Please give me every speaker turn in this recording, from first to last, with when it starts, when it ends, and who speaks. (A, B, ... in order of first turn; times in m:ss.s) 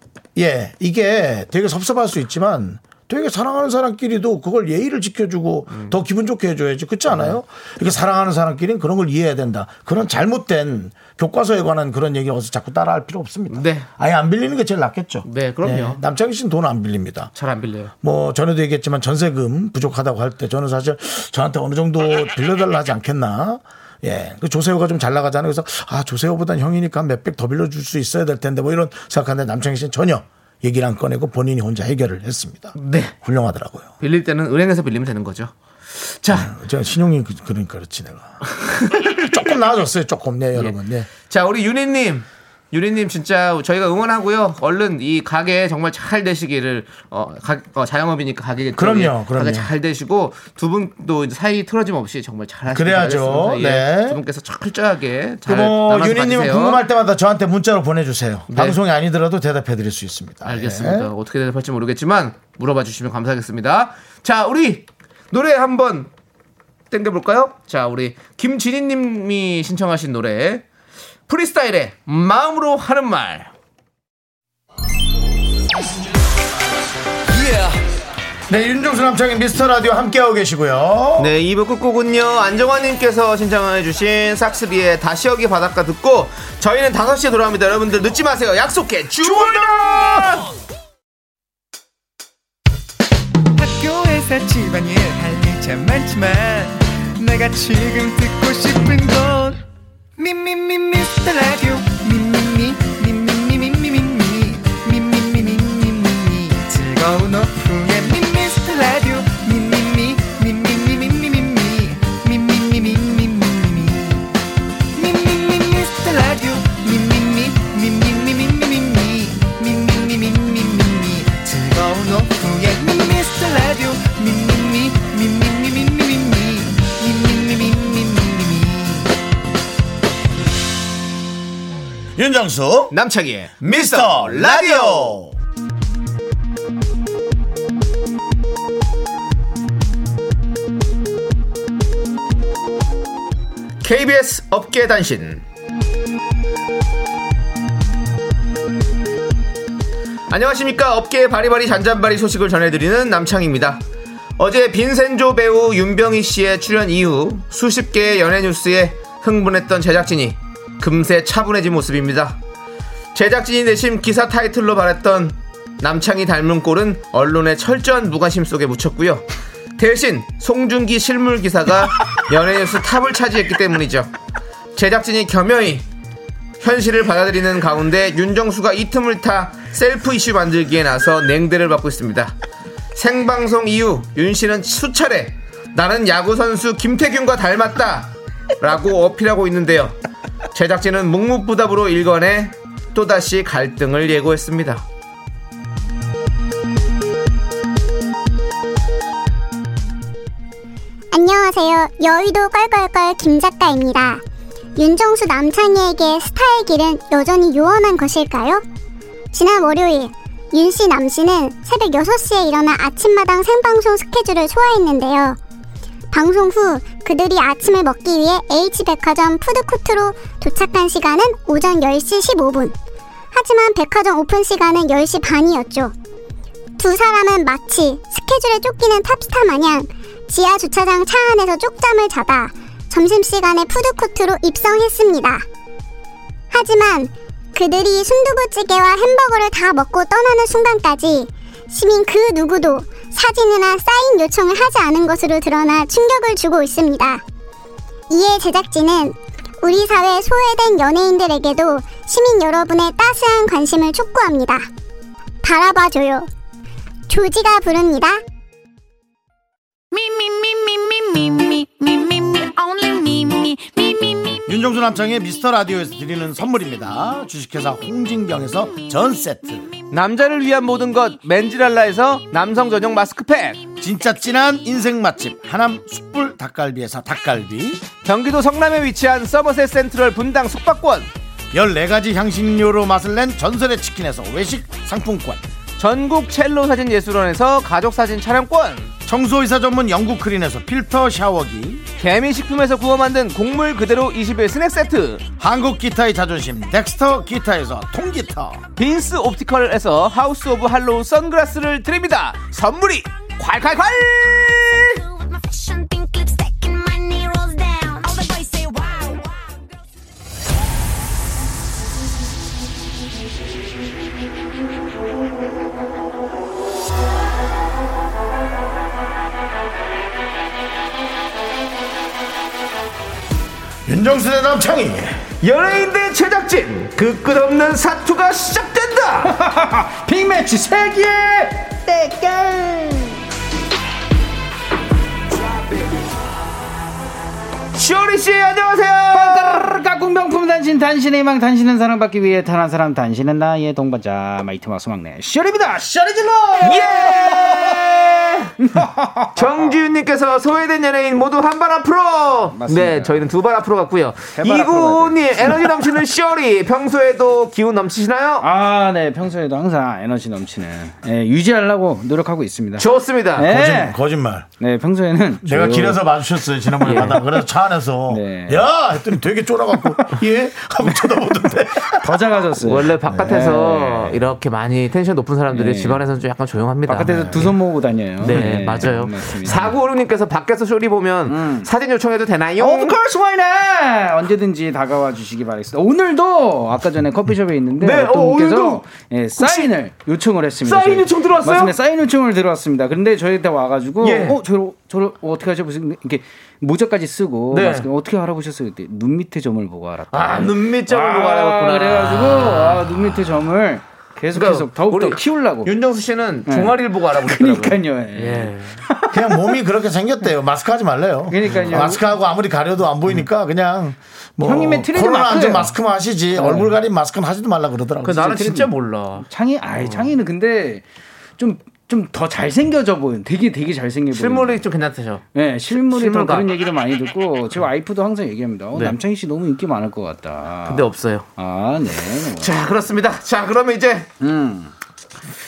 0:00.3-0:17.3 A
0:05.7-0:06.0 B
0:07.1-0:07.4 B
0:13.5-0:13.9 B
0:15.2-0:16.0 B
0:17.3-0:17.9 B
0:18.0-0:33.9 A
0:32.8-0:33.1 B
0:34.0-0:36.5 B
0:36.3-0:41.1 A
0:38.6-0:39.2 B
0:40.5-0:56.8 B
0:48.8-0:49.7 A
0:52.7-0:54.2 A
0:55.4-1:01.1 A
0:58.5-0:58.8 B
1:00.4-1:06.1 B
1:06.9-1:10.6 B
1:11.3-1:13.5 B
1:17.3-1:17.7 B
1:18.5-1:21.3 A
1:21.2-1:30.4 B
1:29.2-1:30.1 A
1:33.6-1:39.6 C
1:40.2-1:54.3 C
1:54.9-2:09.1 C
2:12.2-2:12.9 A
2:12.9-2:15.2 B
2:13.6-2:15.3 A
2:23.8-2:25.4 B
2:30.3-2:33.8 B
2:34.4-2:42.4 B
2:43.1-2:49.2 B
2:49.8-2:54.1 B
2:54.7-2:55.8 B
2:56.6-3:02.3 B
3:02.9-3:10.0 B
3:10.5-3:14.8 B
3:21.1-3:24.2 D
3:24.8-3:28.6 D
3:29.3-3:35.4 D
3:36.1-3:42.7 D
3:43.3-3:45.9 D
3:46.8-3:55.4 D
3:56.5-4:07.2 D
4:08.1-4:14.7 D
4:15.4-4:16.3 D
4:17.1-4:18.2 D
4:24.4-4:29.7 A
4:29.9-4:33.6 B
4:33.8-4:37.8 A
4:38.0-4:41.1 B
4:41.5-4:45.4 A
4:45.8-4:48.9 B
4:49.0-4:51.8 A
4:52.0-4:55.2 B
4:55.4-4:58.6 A
4:58.8-5:05.0 B
5:23.8-5:25.2 A
5:25.4-5:29.3 B
5:29.3-5:33.2 E
5:37.7-5:39.7 B
5:39.1-5:47.8 E
5:46.6-5:48.5 B
5:48.6-5:49.7 E
5:49.3-5:58.5 B
5:52.5-5:53.3 E
5:54.3-5:56.0 E
5:58.4-6:04.0 E
6:02.8-6:03.5 B
6:03.5-6:04.5 A
6:04.6-6:06.0 E
6:05.4-6:12.2 A
6:06.8-6:07.4 E
6:06.8-6:07.2 B
6:08.1-6:08.7 E
6:11.9-6:14.2 E
6:12.6-6:17.5 B
6:15.5-6:16.0 E
6:16.9-6:19.7 E
6:18.2-6:23.0 B
6:21.3-6:21.7 E
6:22.6-6:45.7 E
6:27.8-6:28.8 B
6:29.4-6:29.7 B
6:30.6-6:31.7 B
6:34.0-6:34.4 B
6:37.5-6:37.9 B
6:40.1-6:42.8 B
6:44.3-6:48.8 B
6:46.5-6:49.6 E
6:49.1-6:58.7 A
6:51.3-6:52.0 E
6:51.4-6:51.9 B
6:54.4-6:55.8 E
6:56.3-6:56.7 E
6:58.0-6:59.3 B
6:59.2-7:00.8 E
6:59.8-7:00.1 B
7:01.4-7:04.6 E
7:04.1-7:06.5 B
7:05.3-7:12.5 E
7:10.6-7:11.3 B
7:12.4-7:14.1 B
7:14.2-7:14.7 E